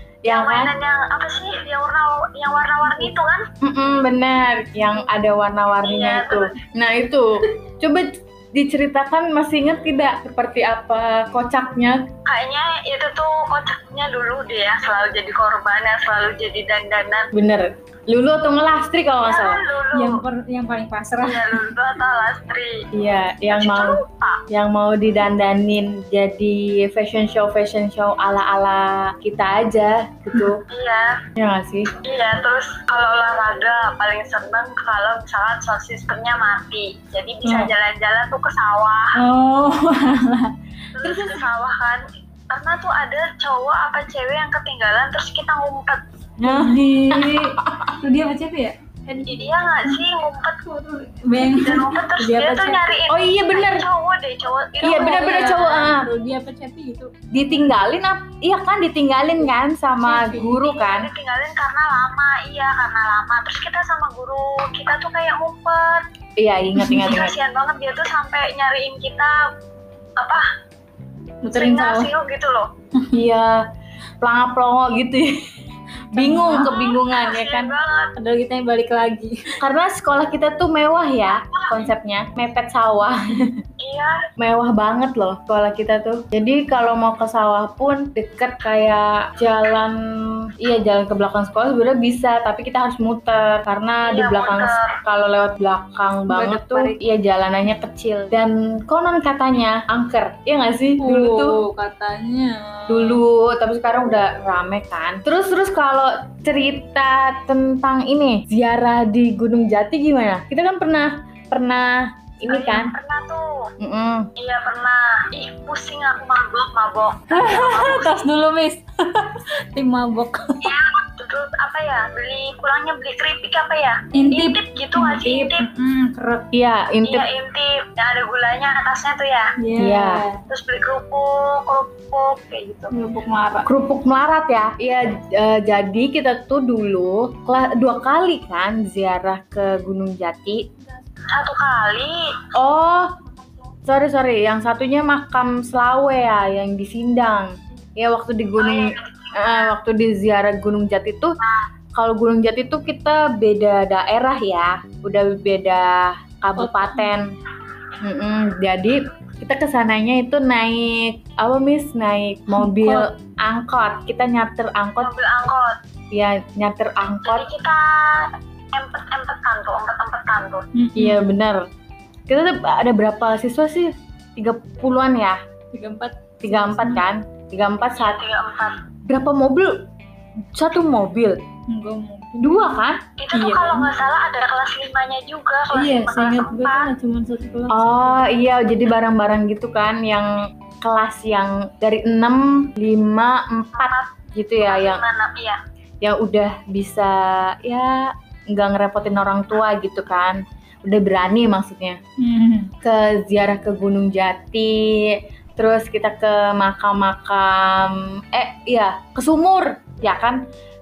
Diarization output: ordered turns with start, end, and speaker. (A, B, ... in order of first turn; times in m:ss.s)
0:00.2-0:00.7 A
0:00.3-0:03.5 B
0:03.6-0:12.1 A
0:05.8-0:06.5 B
0:12.2-0:17.3 B
0:17.3-0:19.6 A
0:19.2-0:20.2 B
0:19.9-0:21.6 C
0:21.2-0:22.8 B
0:22.9-0:30.6 A
0:23.5-0:24.4 B
0:30.7-0:31.2 B
0:31.4-0:31.9 A
0:32.0-0:39.2 B
0:37.4-0:37.7 C
0:39.1-0:40.5 C
0:41.0-0:46.0 B
0:41.0-0:41.4 A
0:46.4-0:49.9 C
0:46.4-0:47.5 A
0:49.3-0:55.3 B
0:51.2-0:52.8 C
0:53.1-0:53.9 A
0:54.8-0:56.1 A
0:54.8-0:57.1 C
0:57.3-1:01.1 A
1:00.0-1:00.7 C
1:00.6-1:06.0 B
1:06.4-1:07.4 A
1:06.8-1:07.1 C
1:07.0-1:09.4 B
1:11.4-1:12.1 C
1:11.5-1:12.7 B
1:13.1-1:13.6 A
1:14.2-1:15.4 A
1:16.1-1:16.7 C
1:16.1-1:17.7 A
1:16.6-1:18.1 B
1:18.2-1:19.6 C
1:19.6-1:23.2 A
1:21.3-1:21.8 B
1:23.8-1:24.2 B
1:24.4-1:41.6 A
1:34.1-1:35.0 B
1:36.3-1:37.0 C
1:41.0-1:43.2 C
1:42.9-1:52.9 A
1:52.5-1:53.4 B
1:53.8-1:54.3 A
1:54.4-1:58.2 B
1:57.3-2:00.7 C
2:00.6-2:05.6 B
2:04.1-2:06.5 C
2:06.5-2:07.3 A
2:07.0-2:09.5 B
2:09.6-2:10.4 C
2:09.8-2:10.2 A
2:10.5-2:12.9 B
2:12.9-2:13.7 C
2:13.6-2:20.6 A
2:21.3-2:22.2 B
2:22.5-2:23.1 A
2:23.9-2:31.4 A
2:28.6-2:29.8 B
2:32.0-2:37.3 A
2:36.6-2:37.1 C
2:38.0-2:45.1 A
2:42.5-2:43.1 C
2:45.0-2:45.8 B
2:46.1-2:47.5 A
2:47.2-2:50.6 B
2:50.7-2:51.4 C
2:51.0-2:51.7 A
2:52.3-2:55.4 A
2:55.7-2:57.0 C
2:56.4-2:58.2 A
2:58.0-2:58.8 B
2:59.0-2:59.8 A
3:00.5-3:01.4 A
3:01.7-3:02.7 C
3:02.4-3:03.0 A
3:03.2-3:06.9 B
3:03.3-3:03.9 C
3:05.7-3:08.3 C
3:07.7-3:15.0 A
3:13.8-3:15.6 B
3:16.0-3:22.0 A
3:22.2-3:22.7 C
3:22.8-3:30.4 A